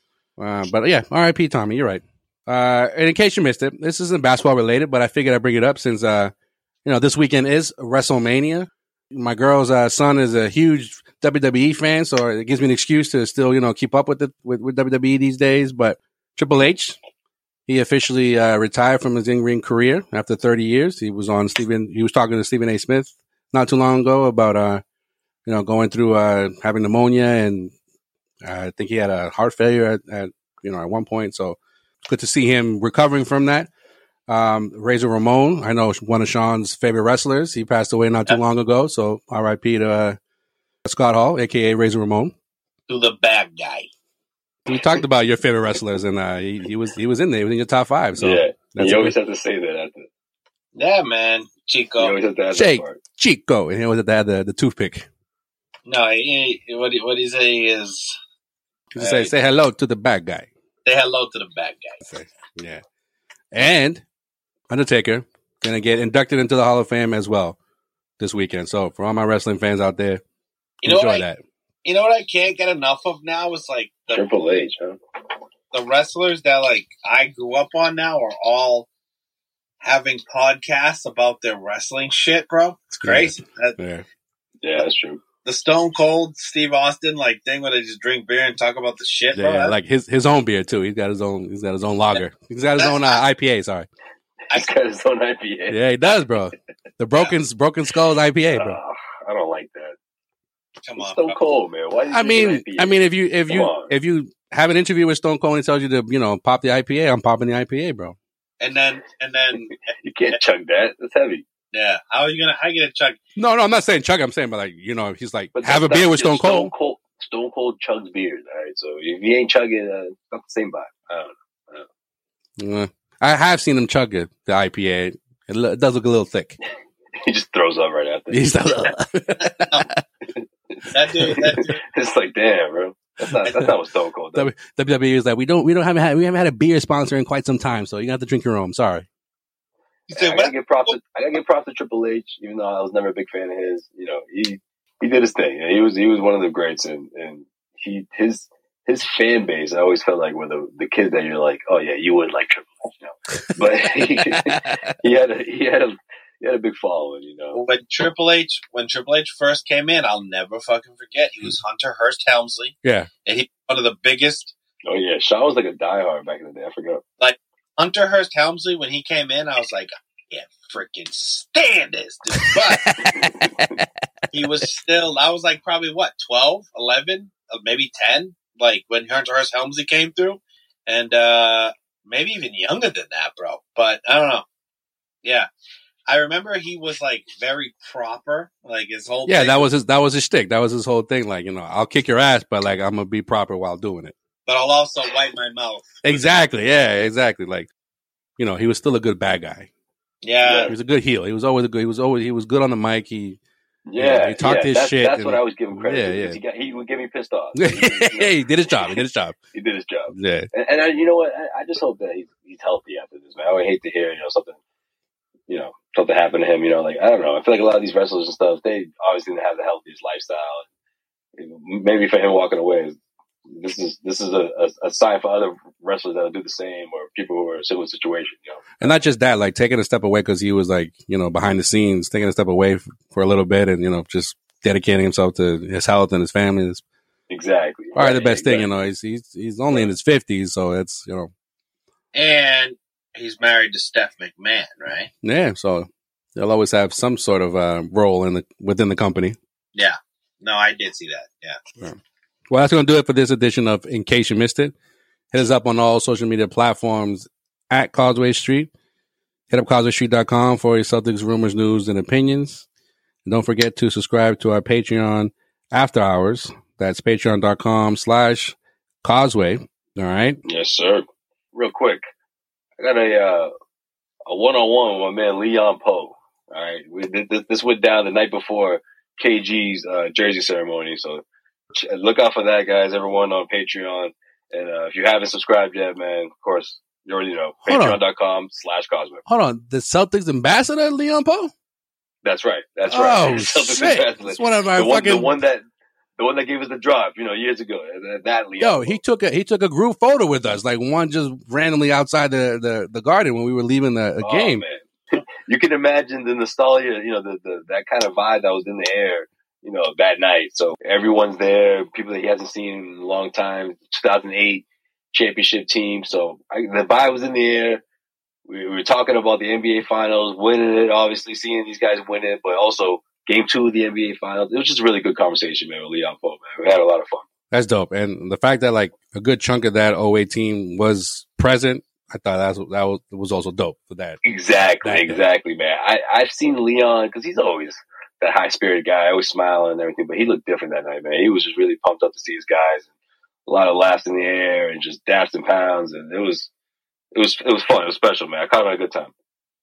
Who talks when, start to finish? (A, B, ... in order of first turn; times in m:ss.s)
0:00.4-0:06.3 A
0:06.8-0:17.0 A
0:17.7-0:24.8 A
0:25.5-0:27.7 A
0:28.4-0:33.7 A
0:34.3-0:40.2 A
0:40.8-0:42.3 A
0:42.9-0:43.9 B
0:44.7-0:49.2 A
0:48.2-0:50.1 C
0:50.8-0:52.2 B
0:52.0-0:53.0 C
0:52.5-0:55.1 A
0:55.9-0:58.2 B
0:58.9-1:00.5 A
0:59.0-0:59.3 B
1:00.8-1:02.0 B
1:02.0-1:02.8 A
1:03.5-1:04.0 A
1:04.7-1:07.6 A
1:08.2-1:10.2 A
1:10.8-1:11.4 A
1:10.8-1:11.3 B
1:11.8-1:14.2 B
1:14.1-1:15.0 C
1:15.7-1:18.9 B
1:19.8-1:23.8 B
1:23.0-1:24.0 A
1:24.6-1:25.2 C
1:25.4-1:29.8 B
1:29.3-1:33.9 A
1:32.8-1:33.2 B
1:34.5-1:35.8 C
1:35.7-1:38.8 A
1:38.5-1:40.0 C
1:40.8-1:41.4 B
1:41.0-1:43.9 C
1:42.1-1:48.2 A
1:48.6-1:49.7 B
1:50.0-1:51.4 C
1:51.7-1:53.2 B
1:53.4-1:56.7 A
1:55.6-2:01.9 C
2:02.6-2:06.6 A
2:07.2-2:08.9 C
2:08.3-2:10.0 A
2:10.9-2:11.8 B
2:11.2-2:14.5 C
2:13.3-2:13.7 A
2:14.3-2:19.1 A
2:20.1-2:21.0 B
2:20.1-2:37.6 C
2:33.4-2:33.6 A
2:34.2-2:35.0 A
2:37.5-2:42.8 B
2:42.8-2:43.1 A
2:43.3-2:44.5 B
2:44.8-2:47.0 C
2:47.2-2:53.0 B
2:52.4-2:53.8 A
2:53.1-2:53.7 C
2:54.3-3:04.4 B
3:06.1-3:09.7 B
3:09.3-3:14.1 A
3:14.5-3:16.3 B
3:16.0-3:17.7 A
3:18.4-3:19.7 A
3:20.2-3:20.8 B
3:20.4-3:20.8 C
3:20.7-3:23.4 A
3:23.9-3:29.0 C
3:24.0-3:26.4 A
3:27.5-3:29.4 A
3:29.5-3:34.6 C
3:30.1-3:30.5 A
3:35.5-3:40.7 C
3:41.4-3:43.0 C
3:43.5-3:49.0 C
3:48.8-3:56.8 A
3:57.3-3:58.7 C
3:58.0-4:01.3 A
4:02.1-4:05.1 B
4:05.2-4:09.4 A
4:09.8-4:11.6 B
4:12.5-4:14.7 A
4:15.3-4:18.7 A
4:19.5-4:22.6 A
4:23.3-4:30.4 A
4:30.4-4:32.0 C
4:32.8-4:33.5 C
4:34.3-4:41.2 C
4:41.8-4:49.2 C
4:47.7-4:48.0 A
4:49.3-4:51.5 A
4:52.2-4:55.6 C
4:52.9-4:55.3 A
4:56.2-4:59.0 C
4:58.6-5:04.6 A
5:04.2-5:17.8 C
5:18.5-5:27.3 C
5:27.5-5:34.2 A
5:34.2-5:42.9 C
5:34.8-5:35.2 A
5:43.5-5:46.5 C
5:47.1-5:49.1 C